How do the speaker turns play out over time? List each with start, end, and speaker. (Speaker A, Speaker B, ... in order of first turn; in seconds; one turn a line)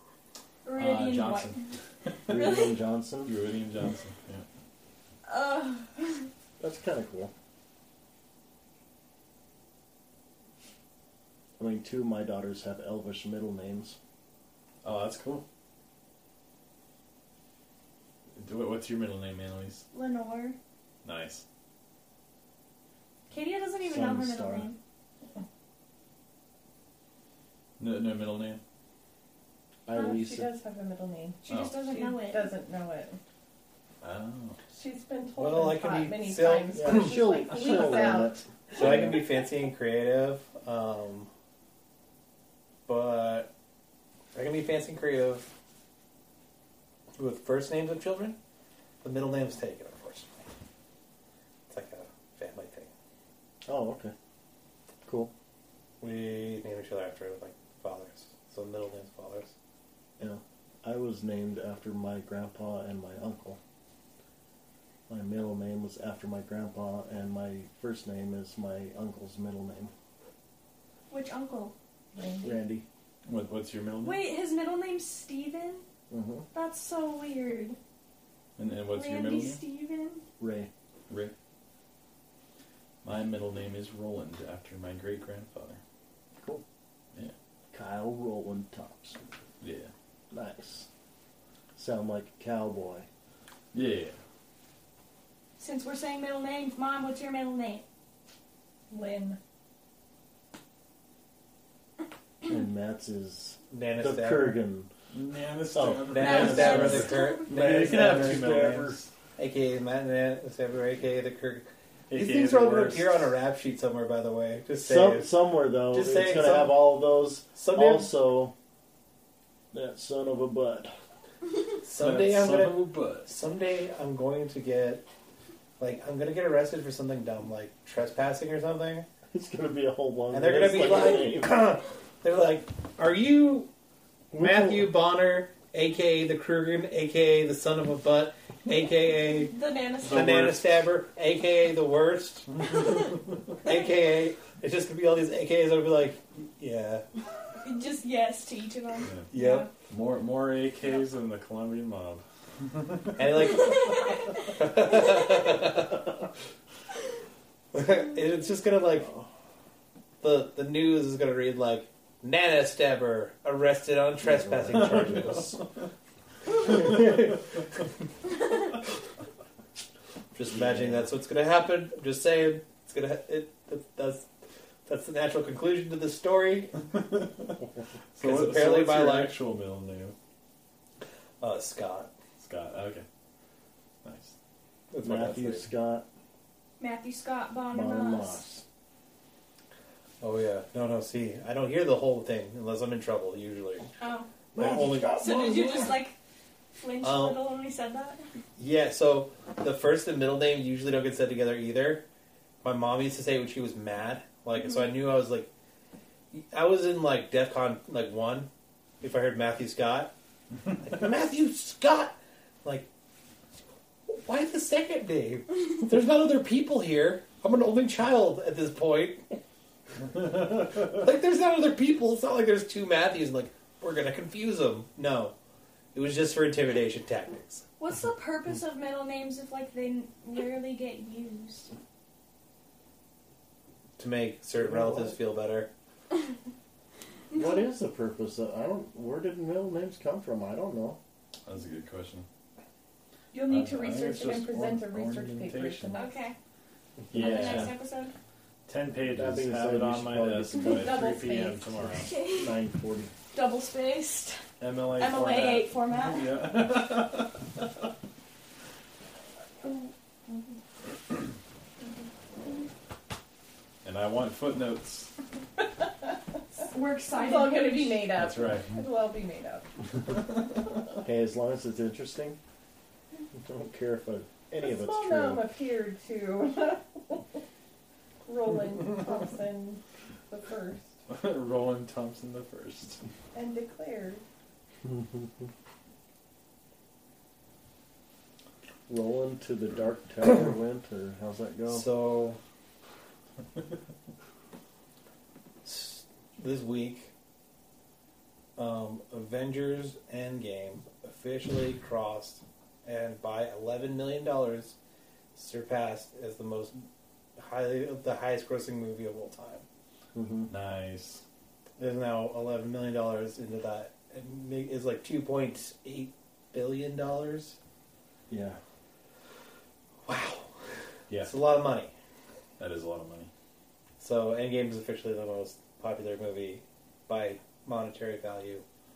Speaker A: 0.7-1.7
Speaker B: 0.8-2.2
Speaker A: 2.3-2.8
Speaker C: 2.3-3.4
Speaker B: 3.2-4.5
Speaker A: 5.3-6.3
Speaker C: 6.6-7.3
Speaker C: 11.6-14.0
Speaker B: 14.8-15.4
Speaker B: 18.4-19.8
Speaker A: 19.9-20.6
Speaker B: 21.0-21.4
Speaker A: 23.3-24.8
Speaker C: 23.8-24.7
Speaker B: 27.8-28.6
Speaker C: 29.9-30.5
Speaker D: 29.9-33.2
Speaker A: 31.4-32.5
Speaker B: 31.5-31.8
Speaker B: 34.0-34.6
Speaker D: 34.7-39.2
Speaker E: 35.4-37.2
Speaker C: 36.7-39.2
Speaker E: 38.7-41.3
Speaker E: 42.9-43.5
Speaker E: 44.4-45.5
Speaker E: 47.2-48.4
Speaker E: 49.0-50.5
Speaker E: 51.7-52.9
Speaker C: 53.7-54.1
Speaker C: 55.0-55.3
Speaker E: 56.0-59.5
Speaker C: 60.2-63.6
Speaker C: 65.1-69.9
Speaker A: 71.1-71.7
Speaker D: 72.1-72.6
Speaker C: 72.4-72.8
Speaker B: 73.3-74.2
Speaker A: 74.0-75.8
Speaker C: 76.1-76.5
Speaker A: 76.5-77.8
Speaker B: 78.6-79.6
Speaker A: 78.9-80.2
Speaker C: 80.4-80.7
Speaker B: 81.1-81.3
Speaker B: 83.0-85.8
Speaker C: 86.4-86.6
Speaker C: 87.7-89.2
Speaker B: 89.6-89.9
Speaker C: 90.3-90.9
Speaker C: 91.8-93.1
Speaker B: 93.7-94.2
Speaker A: 95.6-97.8
Speaker D: 98.9-99.4
Speaker C: 102.5-104.9
Speaker E: 103.7-104.6
Speaker B: 105.1-109.1
Speaker C: 105.7-106.9
Speaker E: 106.1-108.9
Speaker A: 106.2-107.5
Speaker C: 107.5-109.0
Speaker E: 109.4-115.3
Speaker B: 112.1-113.3
Speaker C: 114.8-118.5
Speaker E: 115.9-116.9
Speaker E: 117.5-118.1
Speaker C: 119.7-120.9
Speaker E: 121.8-125.0
Speaker B: 121.9-123.3
Speaker E: 125.8-129.1
Speaker C: 129.3-131.6
Speaker E: 130.3-133.7
Speaker C: 134.3-134.9
Speaker E: 134.4-142.8
Speaker A: 139.5-140.2
Speaker B: 140.0-140.8
Speaker E: 143.6-147.1
Speaker A: 147.6-149.7
Speaker E: 149.3-149.7
Speaker B: 149.9-153.4
Speaker E: 153.2-153.8
Speaker E: 154.5-156.0
Speaker E: 157.7-159.1
Speaker C: 159.0-159.3
Speaker E: 160.2-165.6
Speaker C: 164.2-165.5
Speaker B: 164.9-165.5
Speaker E: 166.7-167.4
Speaker E: 170.3-174.3
Speaker C: 170.5-171.0
Speaker E: 174.9-176.7
Speaker B: 176.9-177.6
Speaker B: 178.2-180.2
Speaker E: 178.2-179.3
Speaker E: 181.4-182.1
Speaker B: 182.4-183.1
Speaker B: 184.0-184.3
Speaker E: 184.9-185.7
Speaker C: 185.0-186.1
Speaker A: 186.8-188.5
Speaker C: 187.7-188.6
Speaker E: 190.2-193.8
Speaker A: 194.0-194.3
Speaker C: 194.6-195.7
Speaker E: 194.6-195.9
Speaker A: 195.1-196.2
Speaker A: 196.8-198.2
Speaker E: 197.0-197.4
Speaker E: 198.6-202.0
Speaker E: 202.6-205.5
Speaker E: 206.3-208.5
Speaker E: 209.0-210.1
Speaker E: 210.8-212.9
Speaker E: 214.1-219.2
Speaker E: 220.6-225.3
Speaker E: 225.9-227.6
Speaker A: 227.8-231.7
Speaker E: 234.0-235.7
Speaker C: 234.6-235.2
Speaker A: 237.3-237.7
Speaker C: 237.3-241.0
Speaker B: 241.5-242.3
Speaker D: 243.3-246.2
Speaker B: 243.5-245.9
Speaker A: 245.9-246.3
Speaker C: 247.1-247.7
Speaker B: 247.1-247.7
Speaker A: 247.1-248.1
Speaker B: 248.7-252.1
Speaker C: 249.0-250.9
Speaker D: 250.6-251.7
Speaker A: 252.1-252.5
Speaker C: 252.3-253.1
Speaker A: 253.3-254.4
Speaker B: 254.6-257.7
Speaker A: 254.9-256.3
Speaker B: 263.8-265.1
Speaker A: 266.6-268.1
Speaker D: 267.1-269.7
Speaker B: 268.2-268.8
Speaker C: 271.0-272.4
Speaker C: 273.4-275.4
Speaker D: 274.6-277.4
Speaker D: 278.2-280.9
Speaker B: 281.1-283.0
Speaker D: 283.3-284.2
Speaker C: 284.9-285.3
Speaker C: 288.9-291.9
Speaker E: 291.7-292.4
Speaker E: 295.6-297.1
Speaker E: 298.6-304.8
Speaker E: 305.3-306.9
Speaker E: 307.4-309.6
Speaker C: 310.1-310.5
Speaker B: 310.5-311.2
Speaker E: 311.8-317.6
Speaker C: 318.3-318.6
Speaker E: 320.1-320.5
Speaker B: 321.1-321.4
Speaker E: 321.2-321.9
Speaker B: 322.6-323.3
Speaker E: 324.0-328.6